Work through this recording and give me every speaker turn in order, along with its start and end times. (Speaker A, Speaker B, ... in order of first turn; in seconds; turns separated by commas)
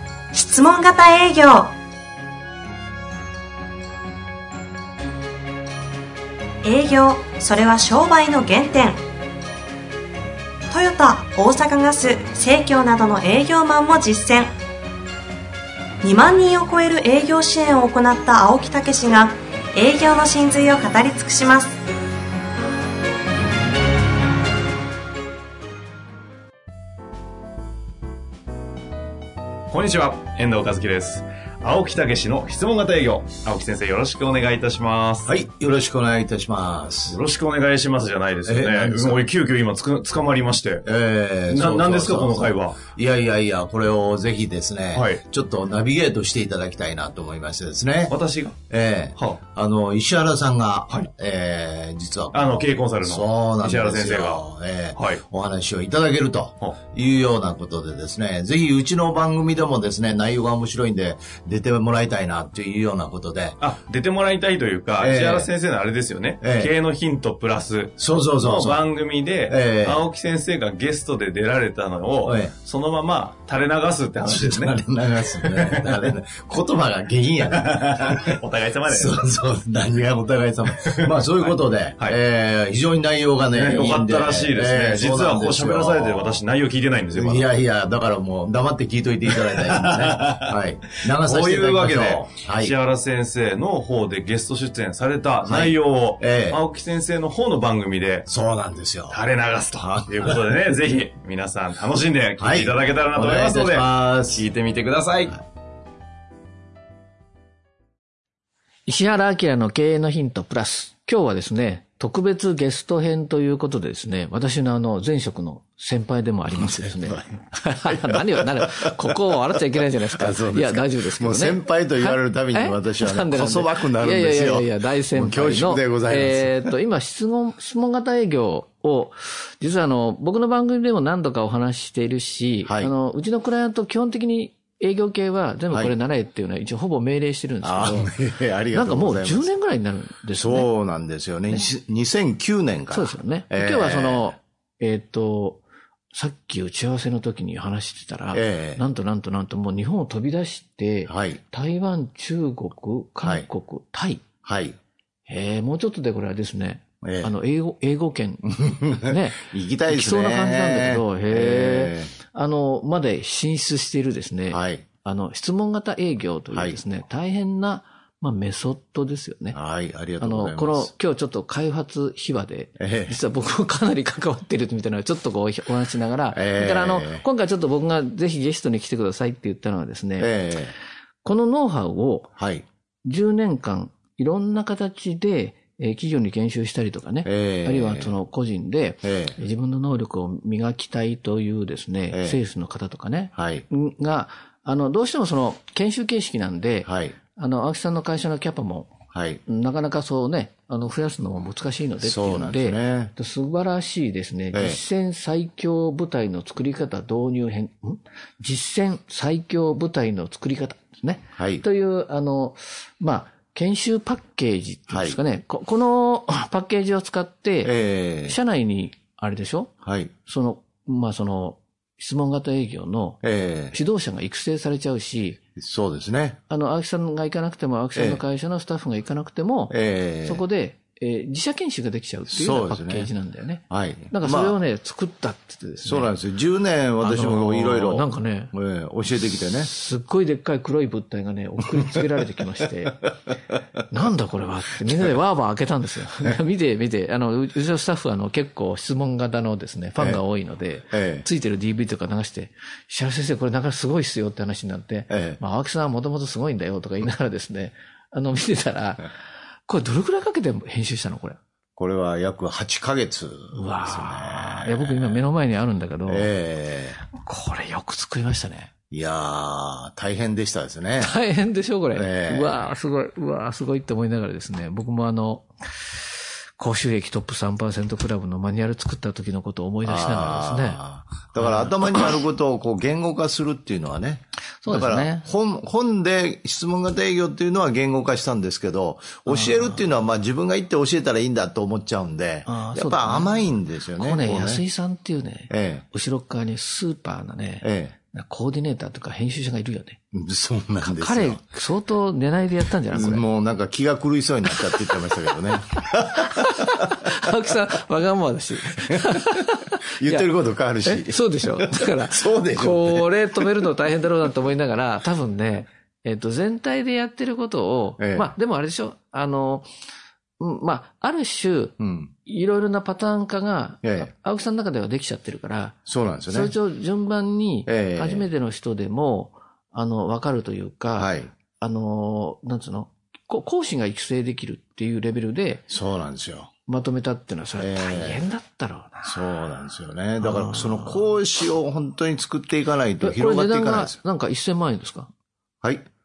Speaker A: 0.3-1.7, Speaker A: 6.6-9.0, Speaker A: 10.7-14.5, Speaker A: 16.0-21.8, Speaker B: 29.7-35.3, Speaker C: 35.3-37.2, Speaker B: 37.1-40.9, Speaker C: 38.5-39.2, Speaker C: 40.9-48.1, Speaker B: 41.5-42.8, Speaker B: 44.9-45.2, Speaker B: 48.1-48.6, Speaker C: 48.7-63.6, Speaker B: 52.3-54.4, Speaker B: 55.0-55.2, Speaker B: 63.6-74.8, Speaker C: 65.0-65.5, Speaker C: 66.4-66.7, Speaker C: 68.0-68.8, Speaker C: 69.5-70.0, Speaker C: 72.2-72.5, Speaker C: 74.2-78.4, Speaker B: 75.3-76.2, Speaker B: 77.5-79.2, Speaker C: 78.9-86.4, Speaker B: 80.8-81.2, Speaker B: 83.5-87.5, Speaker C: 87.1-92.8, Speaker B: 89.3-98.3, Speaker C: 95.5-96.6, Speaker C: 98.3-99.2, Speaker B: 99.1-105.4, Speaker C: 99.8-101.0, Speaker C: 102.4-104.5, Speaker D: 108.9-138.1, Speaker C: 116.5-126.7, Speaker C: 132.7-132.9, Speaker C: 137.6-139.5, Speaker D: 138.7-140.7, Speaker C: 140.3-144.3, Speaker D: 142.9-154.2, Speaker C: 148.3-148.8, Speaker C: 151.1-151.4, Speaker C: 154.4-154.8, Speaker D: 155.3-169.6, Speaker C: 157.0-157.3, Speaker C: 158.5-162.1, Speaker C: 164.5-164.9, Speaker C: 166.5-166.8, Speaker C: 169.5-170.9, Speaker D: 170.2-180.3, Speaker C: 172.8-173.2, Speaker C: 176.3-177.2, Speaker C: 180.2-180.8, Speaker D: 181.2-182.3, Speaker C: 182.4-182.7, Speaker D: 183.1-198.9, Speaker C: 187.2-188.2, Speaker C: 189.0-189.4, Speaker C: 192.1-192.4, Speaker C: 193.3-193.7, Speaker C: 196.8-197.2, Speaker C: 199.1-199.4, Speaker D: 199.5-219.7, Speaker C: 202.0-203.1, Speaker C: 204.5-204.8, Speaker C: 211.4-211.6, Speaker C: 214.9-215.2, Speaker C: 217.6-218.4, Speaker C: 219.8-220.1, Speaker D: 220.3-223.2, Speaker C: 223.2-223.8, Speaker D: 223.7-225.4, Speaker C: 225.6-226.4, Speaker D: 226.5-236.1, Speaker C: 227.9-228.2, Speaker C: 229.7-230.4, Speaker C: 232.3-233.1, Speaker C: 233.7-234.6, Speaker C: 235.8-239.7, Speaker D: 237.0-238.5, Speaker D: 239.6-243.0, Speaker C: 241.6-242.2, Speaker D: 243.9-259.1, Speaker C: 244.8-245.2, Speaker C: 250.9-251.3, Speaker C: 255.1-255.4, Speaker D: 259.7-261.4, Speaker C: 261.8-265.2, Speaker D: 263.5-266.3, Speaker C: 266.1-267.0, Speaker D: 267.1-268.7, Speaker C: 268.9-271.1, Speaker D: 271.0-276.0, Speaker C: 271.9-272.7, Speaker D: 276.6-280.8, Speaker C: 279.9-294.6, Speaker D: 281.4-281.8, Speaker D: 284.6-285.3, Speaker D: 289.3-289.8, Speaker D: 292.5-300.0, Speaker C: 295.5-295.9, Speaker C: 297.6-297.9, Speaker C: 300.1-301.4, Speaker D: 300.8-303.2, Speaker C: 302.9-307.3, Speaker D: 305.8-310.3, Speaker C: 308.7-313.6, Speaker D: 310.8-319.7, Speaker C: 318.0-318.3, Speaker D: 320.4-335.7, Speaker C: 321.8-322.1, Speaker C: 323.8-324.1, Speaker C: 325.9-326.6, Speaker C: 327.7-328.3, Speaker C: 331.0-331.3, Speaker C: 335.7-336.5, Speaker D: 336.7-339.2, Speaker C: 337.6-338.2, Speaker C: 339.0-344.0, Speaker D: 340.2-341.1, Speaker D: 343.0-345.1, Speaker C: 345.6-345.9